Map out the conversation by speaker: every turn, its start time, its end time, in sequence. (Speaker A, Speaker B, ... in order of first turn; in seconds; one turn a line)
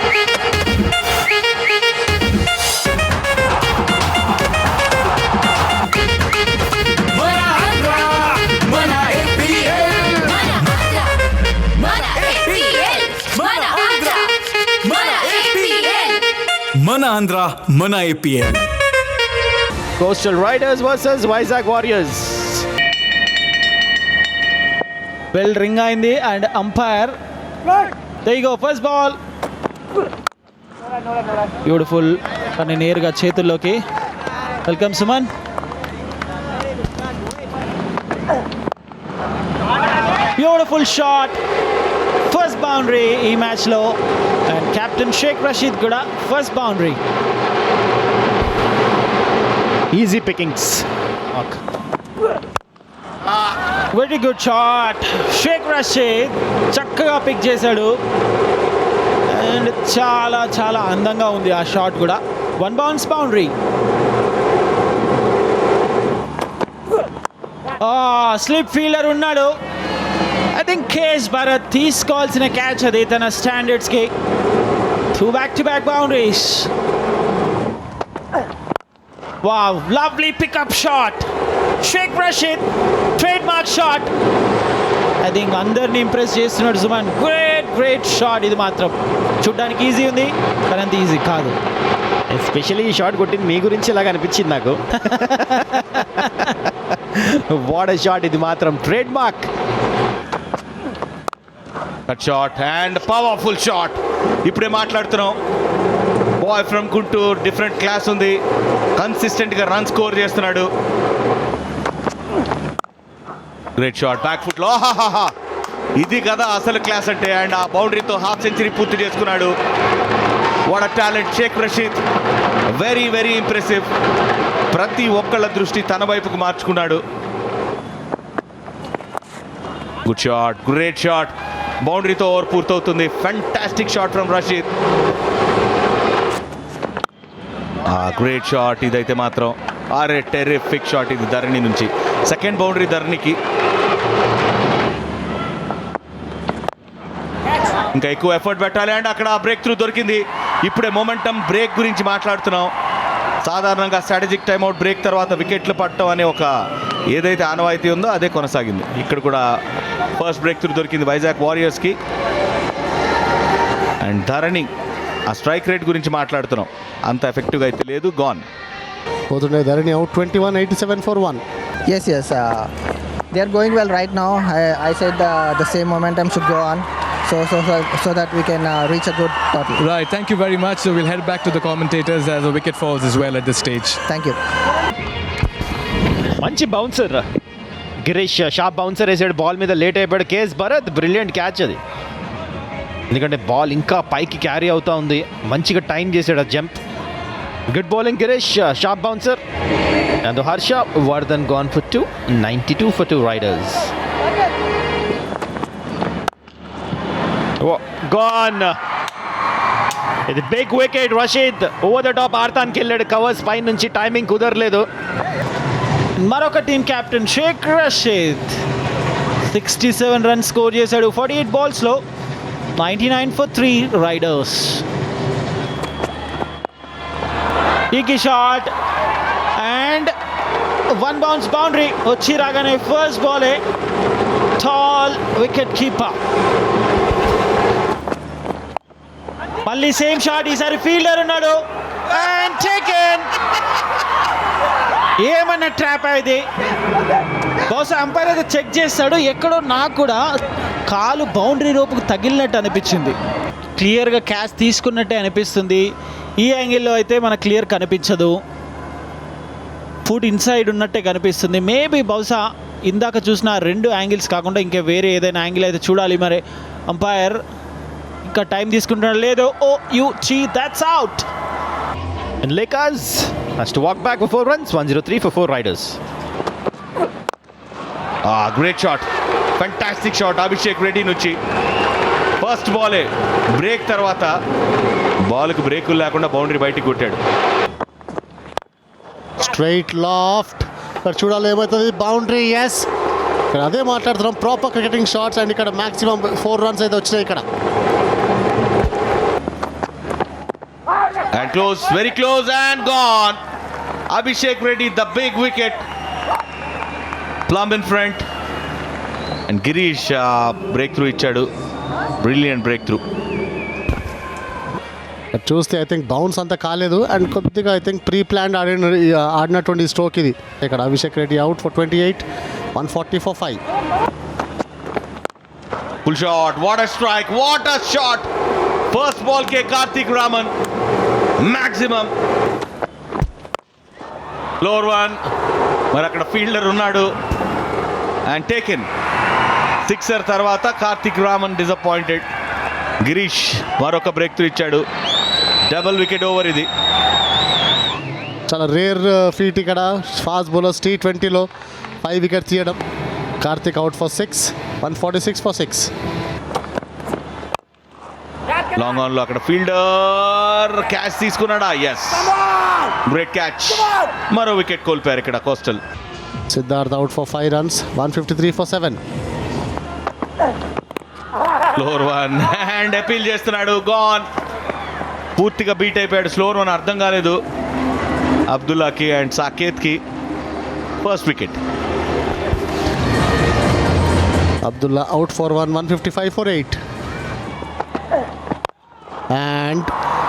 Speaker A: 7.3-10.6
Speaker A: 13.1-14.3
Speaker A: 14.8-16.0
Speaker A: 16.8-18.6
Speaker B: 20.0-22.7
Speaker C: 25.3-27.2
Speaker C: 28.2-29.2
Speaker C: 31.6-33.8
Speaker C: 34.6-35.3
Speaker C: 40.4-41.4
Speaker C: 42.3-47.0
Speaker B: 49.9-51.6
Speaker C: 53.9-57.9
Speaker C: 59.3-63.5
Speaker C: 67.8-69.5
Speaker C: 70.5-74.1
Speaker C: 75.1-76.7
Speaker C: 79.4-81.3
Speaker C: 81.8-82.6
Speaker C: 83.2-84.1
Speaker C: 85.2-91.6
Speaker B: 92.3-99.5
Speaker D: 102.1-105.4
Speaker D: 106.4-108.4
Speaker D: 109.0-110.7
Speaker D: 113.8-115.3
Speaker D: 116.0-119.5
Speaker D: 120.7-122.0
Speaker D: 122.8-123.9
Speaker D: 124.7-127.0
Speaker D: 130.1-131.3
Speaker D: 131.9-134.7
Speaker D: 137.9-143.4
Speaker D: 147.9-152.7
Speaker D: 153.4-156.5
Speaker D: 157.1-159.4
Speaker D: 160.2-162.0
Speaker D: 164.0-164.7
Speaker D: 165.3-168.4
Speaker E: 169.3-171.4
Speaker F: 171.9-172.7
Speaker F: 173.3-179.9
Speaker A: 179.8-184.0
Speaker F: 184.0-184.4
Speaker B: 186.4-187.3
Speaker B: 188.0-191.8
Speaker B: 193.1-196.8
Speaker B: 197.7-199.4
Speaker B: 200.2-203.9
Speaker B: 207.6-208.8
Speaker B: 210.3-214.9
Speaker C: 216.2-218.6
Speaker C: 219.4-222.0
Speaker C: 222.8-224.8
Speaker C: 227.9-228.7
Speaker C: 229.6-230.1
Speaker C: 230.9-233.6
Speaker C: 234.6-236.2
Speaker C: 239.7-243.3
Speaker C: 245.2-246.4
Speaker C: 247.7-250.2
Speaker C: 250.9-253.2
Speaker C: 253.8-255.9
Speaker C: 256.4-258.4
Speaker C: 260.1-267.4
Speaker C: 268.2-271.3
Speaker B: 272.4-276.0
Speaker D: 278.3-279.1
Speaker D: 279.6-281.4
Speaker D: 282.4-284.3
Speaker D: 285.3-287.2
Speaker E: 289.4-292.9
Speaker E: 293.5-297.4
Speaker D: 301.3-303.4
Speaker D: 304.1-305.8
Speaker D: 307.5-308.2
Speaker D: 309.5-311.5
Speaker D: 312.2-313.0
Speaker E: 315.4-323.6
Speaker D: 326.1-328.3
Speaker D: 328.9-330.5
Speaker D: 331.4-332.1
Speaker D: 334.6-335.2
Speaker D: 335.9-337.1
Speaker D: 338.3-338.9
Speaker D: 339.9-342.2
Speaker D: 343.1-344.8
Speaker D: 345.7-346.7
Speaker E: 348.5-351.5
Speaker E: 352.0-352.8
Speaker E: 353.4-355.9
Speaker D: 358.8-362.3
Speaker D: 363.1-365.8
Speaker E: 366.5-369.0
Speaker D: 371.8-374.3
Speaker D: 375.4-377.4
Speaker D: 378.5-380.0
Speaker D: 381.0-381.6
Speaker E: 384.6-386.8
Speaker E: 389.3-389.9